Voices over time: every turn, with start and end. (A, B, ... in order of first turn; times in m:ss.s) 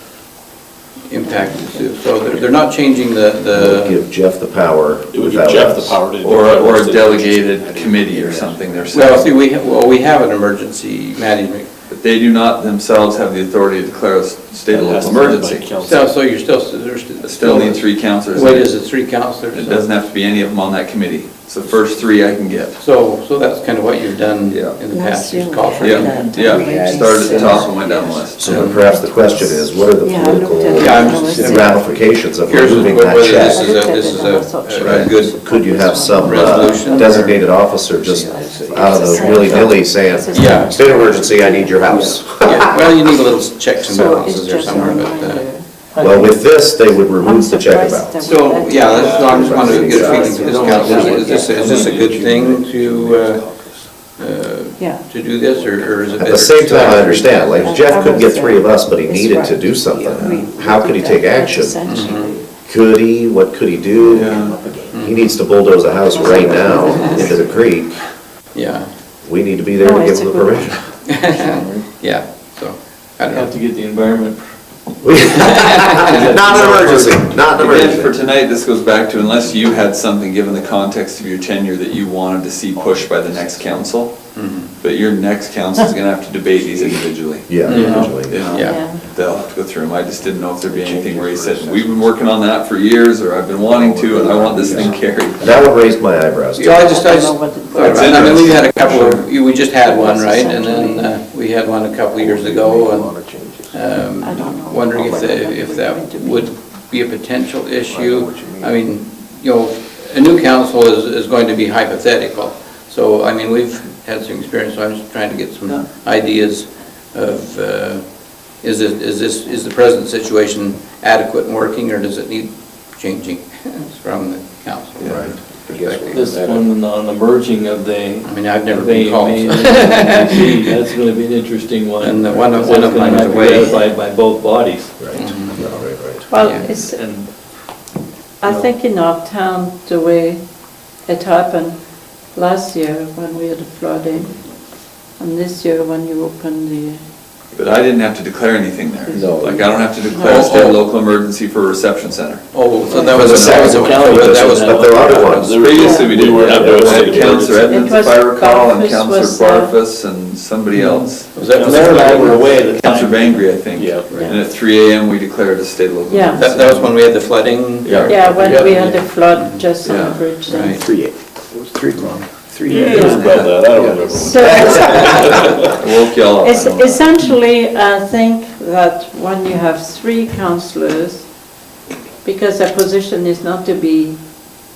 0:01.1-0:04.0 A
0:03.5-0:06.0 B
0:05.1-0:07.2 C
0:06.2-0:09.3 D
0:06.7-0:09.1 E
0:08.9-0:11.7 A
0:11.9-0:15.8 D
0:14.7-0:16.1 E
0:14.9-0:15.8 C
0:15.8-0:19.9 A
0:17.2-0:18.8 D
0:19.5-0:22.8 D
0:22.8-0:26.3 A
0:24.5-0:24.8 D
0:24.9-0:27.8 F
0:25.8-0:28.9 D
0:26.1-0:28.3 E
0:28.4-0:33.8 B
0:28.5-0:28.8 A
0:29.0-0:29.5 F
0:30.0-0:31.8 F
0:30.8-0:31.8 A
0:32.4-0:35.4 A
0:33.2-0:37.4 F
0:34.8-0:42.7 B
0:34.8-0:35.1 D
0:36.2-0:37.4 A
0:38.0-0:39.8 E
0:38.2-0:42.2 F
0:40.3-0:40.8 A
0:41.9-0:42.9 E
0:42.4-0:45.5 A
0:43.8-0:45.9 F
0:45.9-0:46.4 G
0:46.0-0:48.2 B
0:47.2-0:51.6 F
0:48.2-0:53.4 A
0:48.8-0:53.9 E
0:49.2-0:50.3 B
0:50.4-0:50.9 G
0:54.2-0:57.6 A
0:54.8-0:55.0 F
0:55.4-0:56.4 E
0:56.2-1:02.0 B
0:57.2-0:57.7 E
0:57.6-1:02.5 F
1:01.9-1:02.3 A
1:02.7-1:07.9 B
1:03.9-1:05.1 E
1:04.1-1:04.6 D
1:04.9-1:05.3 A
1:06.1-1:07.5 F
1:06.2-1:07.7 E
1:08.5-1:08.9 A
1:09.2-1:10.8 B
1:09.8-1:10.8 F
1:11.1-1:13.5 A
1:11.5-1:11.8 G
1:13.3-1:14.6 G
1:15.0-1:18.2 B
1:15.5-1:16.0 A
1:16.0-1:17.8 G
1:16.6-1:35.5 D
1:19.2-1:20.9 E
1:22.7-1:24.0 E
1:24.4-1:24.7 A
1:26.6-1:27.1 E
1:27.5-1:28.4 B
1:27.6-1:29.0 A
1:27.7-1:28.1 G
1:28.4-1:28.7 E
1:28.5-1:29.0 F
1:30.6-1:32.4 E
1:33.5-1:35.6 E
1:35.4-1:36.7 B
1:36.6-1:43.2 A
1:36.6-1:41.2 F
1:37.8-1:39.2 D
1:42.2-1:43.8 E
1:43.7-1:58.0 A
1:44.2-1:46.5 F
1:44.9-1:45.4 E
1:47.8-1:48.8 E
1:58.6-2:06.2 A
2:05.0-2:05.3 D
2:05.1-2:05.4 B
2:05.6-2:06.7 E
2:06.1-2:15.2 G
2:08.2-2:10.6 A
2:12.0-2:13.8 A
2:15.0-2:16.3 B
2:15.2-2:16.7 A
2:16.3-2:17.0 F
2:16.8-2:17.3 G
2:18.4-2:20.4 F
2:18.4-2:18.7 G
2:21.0-2:21.8 F
2:22.3-2:24.4 F
2:25.2-2:27.0 F
2:27.6-2:32.6 D
2:29.1-2:30.6 F
2:29.1-2:29.7 E
2:30.2-2:30.8 A
2:32.5-2:35.7 A
2:32.9-2:33.2 F
2:33.0-2:37.8 G
2:33.1-2:35.6 B
2:33.2-2:34.0 D
2:35.5-2:37.5 C
2:35.6-2:46.9 D
2:35.8-2:36.1 F
2:36.6-2:37.2 A
2:37.6-2:39.8 F
2:40.8-2:42.6 A
2:41.4-2:43.2 G
2:43.7-2:44.2 C
2:46.1-2:46.5 F
2:46.4-2:49.7 A
2:47.8-2:48.2 D
2:48.0-2:50.8 F
2:48.4-2:48.8 G
2:49.8-2:50.3 D
2:50.5-2:50.9 A
2:50.6-2:53.0 E
2:52.0-2:52.2 A
2:52.7-2:53.5 F
2:52.7-2:55.7 C
2:53.0-2:53.7 D
2:54.0-2:55.2 F
2:54.7-2:55.4 A
2:55.7-2:57.0 D
2:56.4-3:01.3 F
3:02.2-3:04.2 F